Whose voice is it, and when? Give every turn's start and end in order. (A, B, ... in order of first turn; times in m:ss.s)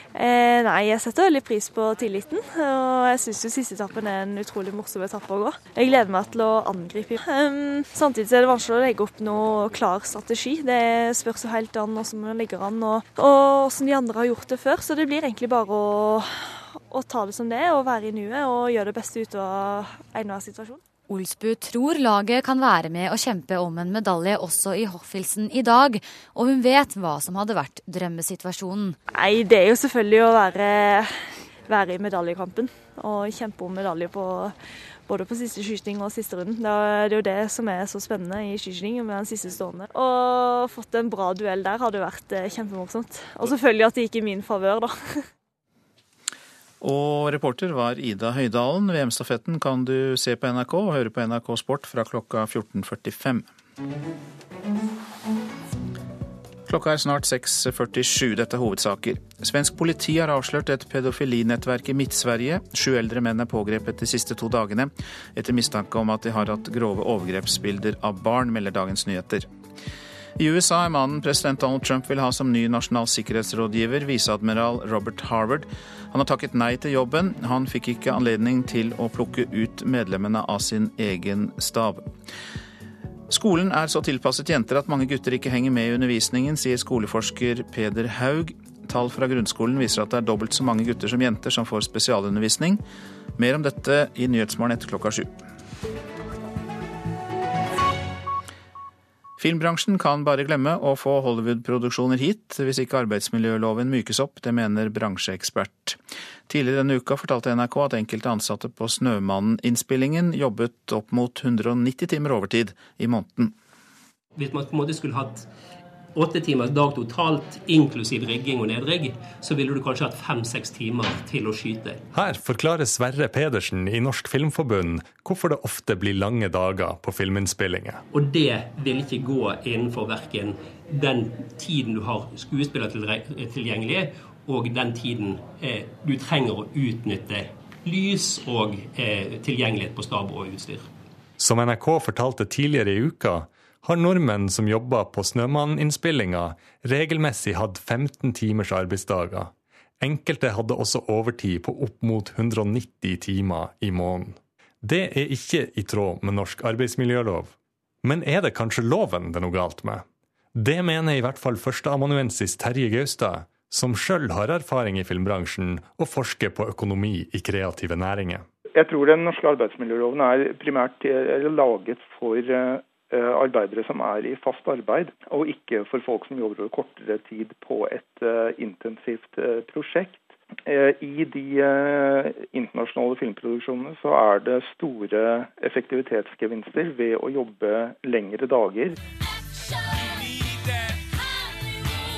0:00.1-0:20.8 A
0:21.1-0:29.0 B
0:29.1-0:34.5 A
0:35.0-0:45.2 A
0:46.8-0:53.5 C
0:56.7-1:09.5 C
1:10.4-1:22.1 C
1:23.3-1:32.8 C
1:33.4-1:35.4 C
1:39.4-1:53.5 C
1:54.4-1:55.5 D
1:56.1-2:02.0 D
2:02.1-2:08.0 E
2:08.1-2:20.9 D
2:21.4-2:48.4 E
2:48.7-3:09.0 F